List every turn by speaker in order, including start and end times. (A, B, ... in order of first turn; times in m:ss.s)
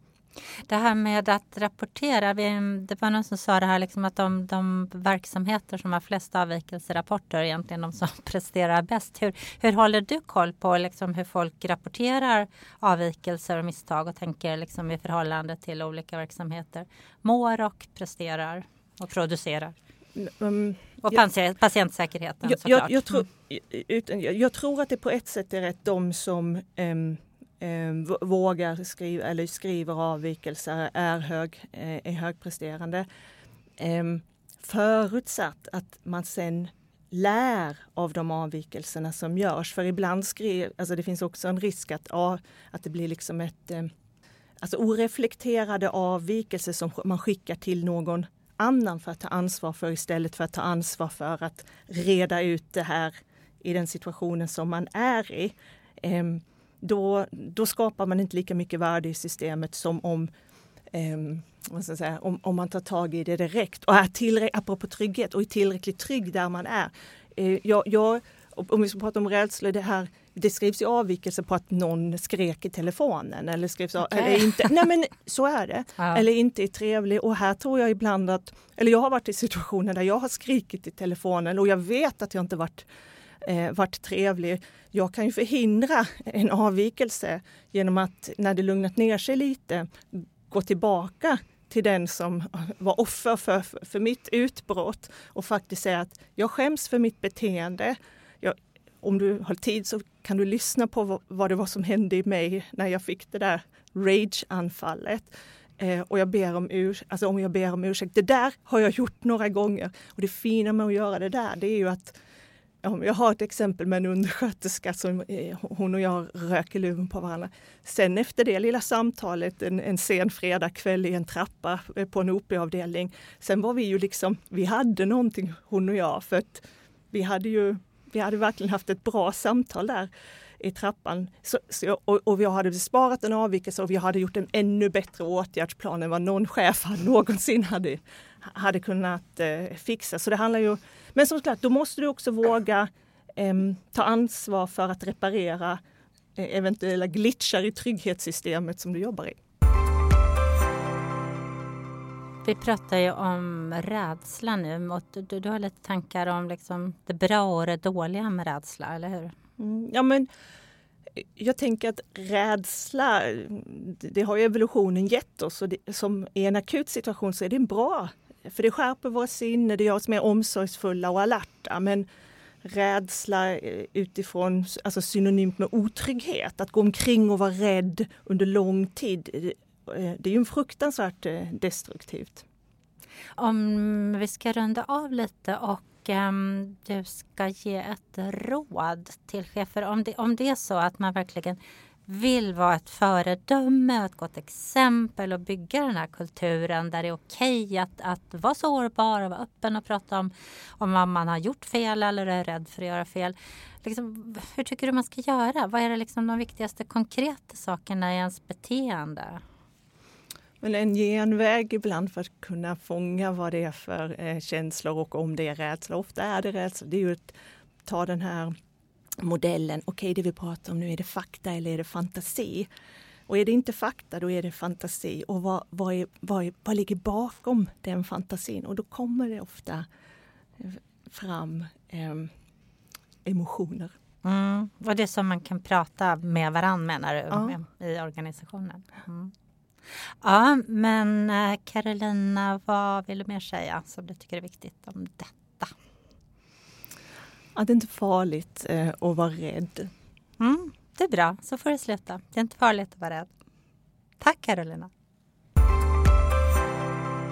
0:00.7-0:19.7 A
0:20.2-0:21.2 B
0:21.0-0:23.2 A
0:22.4-0:33.1 B
0:33.8-0:43.9 B
0:44.6-1:00.3 B
1:00.9-1:22.9 B
1:16.0-1:16.2 A
1:23.4-1:29.9 B
1:30.5-1:52.2 B
1:52.8-2:25.8 B
2:26.4-2:29.4 B
2:32.4-2:39.3 A
2:39.6-2:40.3 B
2:41.4-2:52.1 B
2:52.6-3:02.4 B
3:03.4-3:29.4 A
3:30.6-3:38.5 B
3:39.2-3:42.7 B
3:43.3-3:49.9 B
3:50.6-3:52.3 B
3:53.2-3:53.9 B
3:54.2-3:59.3 A
4:00.2-4:05.7 A
4:07.6-4:09.9 B
4:10.4-4:13.3 A
4:14.2-4:14.9 A